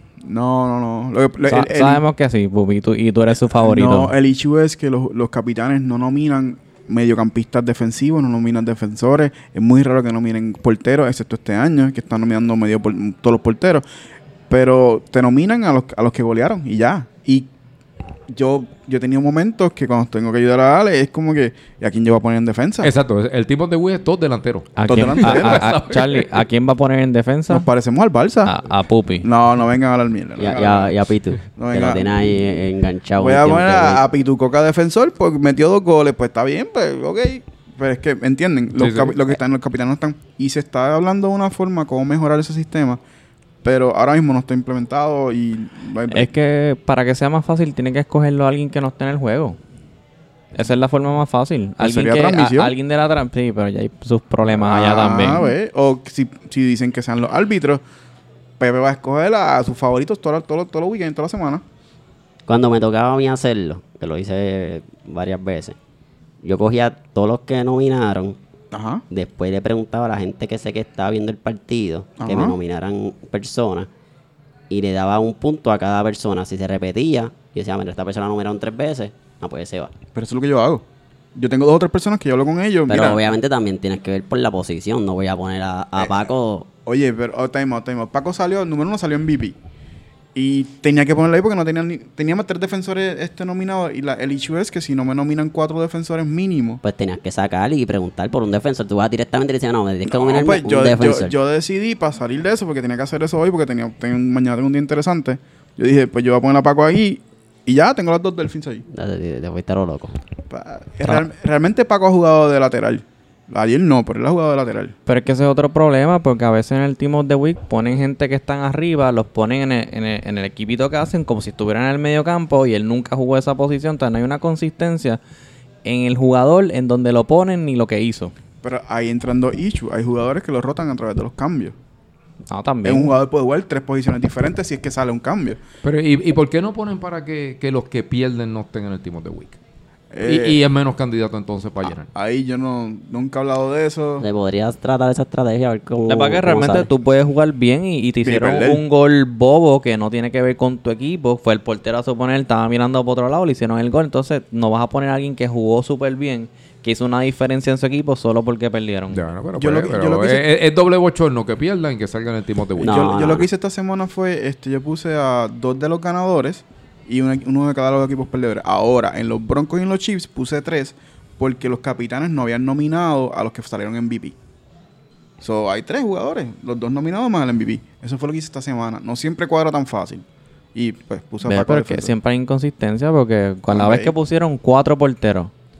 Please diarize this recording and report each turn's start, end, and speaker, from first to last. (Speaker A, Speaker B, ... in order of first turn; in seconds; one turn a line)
Speaker A: 0.2-2.0
Speaker B: 1.5-4.1
Speaker A: 3.4-13.8
Speaker A: 14.5-17.5
Speaker A: 18.3-22.9
Speaker C: 22.8-26.4
Speaker B: 24.8-27.7
Speaker A: 24.9-25.7
Speaker A: 27.5-28.6
Speaker B: 28.4-29.3
Speaker A: 29.2-31.0
Speaker D: 30.4-34.0
Speaker A: 31.5-32.3
Speaker A: 33.2-43.0
Speaker C: 38.8-39.2
Speaker A: 43.6-46.3
Speaker B: 46.1-49.6
Speaker B: 50.5-55.5
Speaker A: 51.8-52.7
Speaker A: 54.5-57.8
Speaker A: 58.6-61.6
Speaker D: 62.5-65.8
Speaker D: 66.4-68.4
Speaker A: 68.7-69.0
Speaker D: 69.1-73.9
Speaker A: 72.2-72.6
Speaker D: 74.7-79.9
Speaker A: 80.1-80.8
Speaker A: 81.3-83.2
Speaker D: 82.9-86.7
Speaker A: 86.0-86.3
Speaker A: 86.8-89.5
Speaker A: 90.3-96.8
Speaker D: 96.8-101.3
Speaker A: 100.1-108.8
Speaker D: 108.9-110.1
Speaker A: 110.5-114.9
Speaker B: 115.1-125.2
Speaker B: 125.8-128.3
Speaker A: 128.6-131.8
Speaker B: 132.5-133.1
Speaker A: 132.8-135.6
Speaker C: 135.8-139.6
Speaker A: 140.1-140.6
Speaker C: 140.2-142.1
Speaker A: 142.1-144.2
Speaker D: 144.2-146.9
Speaker B: 146.1-159.2
Speaker A: 148.2-148.8
Speaker C: 159.1-163.1
Speaker A: 159.6-160.4
Speaker A: 162.8-174.3
Speaker D: 162.8-163.5
Speaker A: 175.4-182.1
Speaker B: 181.4-185.5
Speaker A: 183.7-184.1